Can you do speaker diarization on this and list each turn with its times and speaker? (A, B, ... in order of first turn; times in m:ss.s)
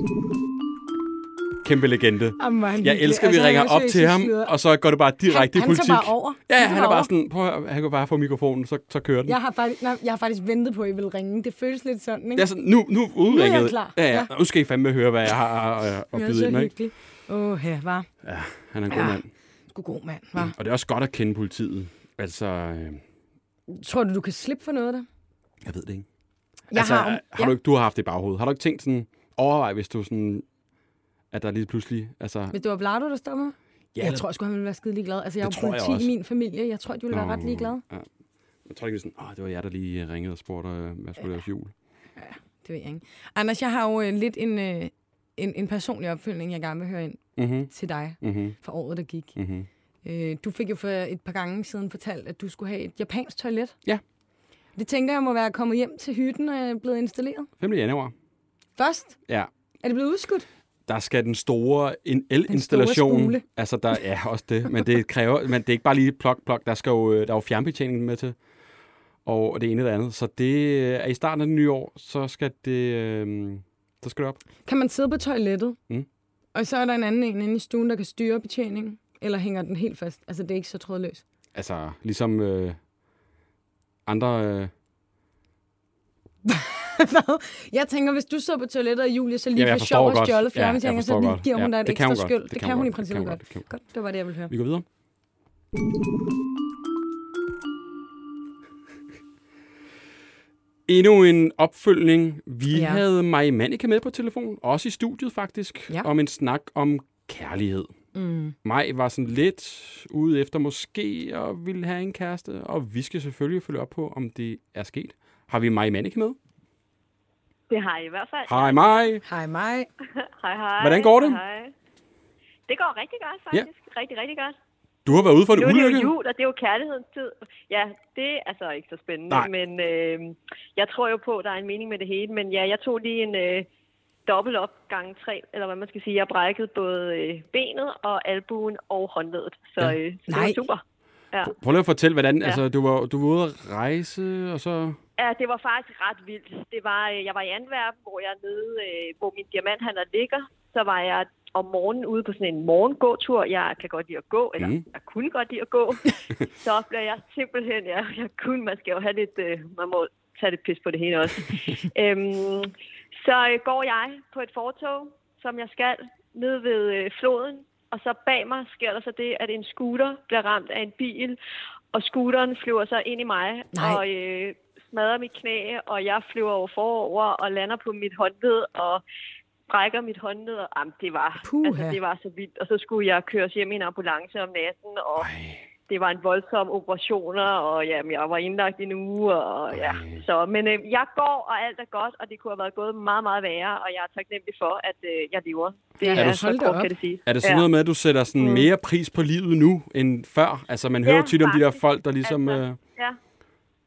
0:01.6-0:09.4 A
0:02.4-0:04.5 B
0:05.3-0:07.1 B
0:09.3-0:12.5 B
0:12.4-0:16.7 A
0:13.3-0:14.3 B
0:16.1-0:18.1 B
0:18.2-0:19.3 A
0:18.9-0:19.2 B
0:19.7-0:20.5 B
0:20.4-0:23.0 A
0:23.7-0:25.0 B
0:25.6-0:26.0 A
0:26.7-0:27.5 B
0:26.7-0:30.4 A
0:31.3-0:32.5 A
0:32.5-0:37.8 B
0:33.9-0:34.2 A
0:35.4-0:36.1 A
0:37.1-0:38.1 A
0:38.6-0:41.7 A
0:42.2-0:49.4 B
0:47.4-0:48.6 A
0:49.3-0:49.7 A
0:50.0-0:53.7 B
0:54.8-0:57.5 B
0:57.6-0:58.1 A
0:58.8-0:59.2 B
0:59.8-1:00.4 B
1:00.8-1:08.4 A
1:02.5-1:03.4 B
1:09.2-1:14.4 A
1:14.6-1:15.8 B
1:16.5-1:21.2 B
1:21.5-1:22.8 A
1:24.0-1:24.7 A
1:26.4-1:34.5 B
1:29.6-1:33.7 A
1:34.5-1:34.8 A
1:40.9-1:47.9 A
1:42.7-1:43.0 B
1:48.1-1:48.5 B
1:48.6-1:56.4 A
1:57.7-1:58.9 C
1:58.4-1:59.2 A
1:59.2-1:59.9 B
2:00.2-2:01.7 C
2:00.8-2:01.4 A
2:02.7-2:04.6 C
2:05.0-2:06.1 A
2:05.1-2:13.7 C
2:14.2-2:20.8 C
2:20.3-2:20.6 B
2:21.4-2:25.0 A
2:25.2-2:51.4 C
2:34.6-2:34.8 A
2:51.9-2:59.0 C
2:53.7-2:54.0 B
2:59.7-3:05.3 C
3:01.4-3:02.0 B
3:05.2-3:05.6 A
3:05.9-3:17.7 C
3:09.7-3:10.2 A
3:16.0-3:16.9 B
3:16.1-3:16.4 A
3:17.2-3:22.8 A
3:21.0-3:23.2 C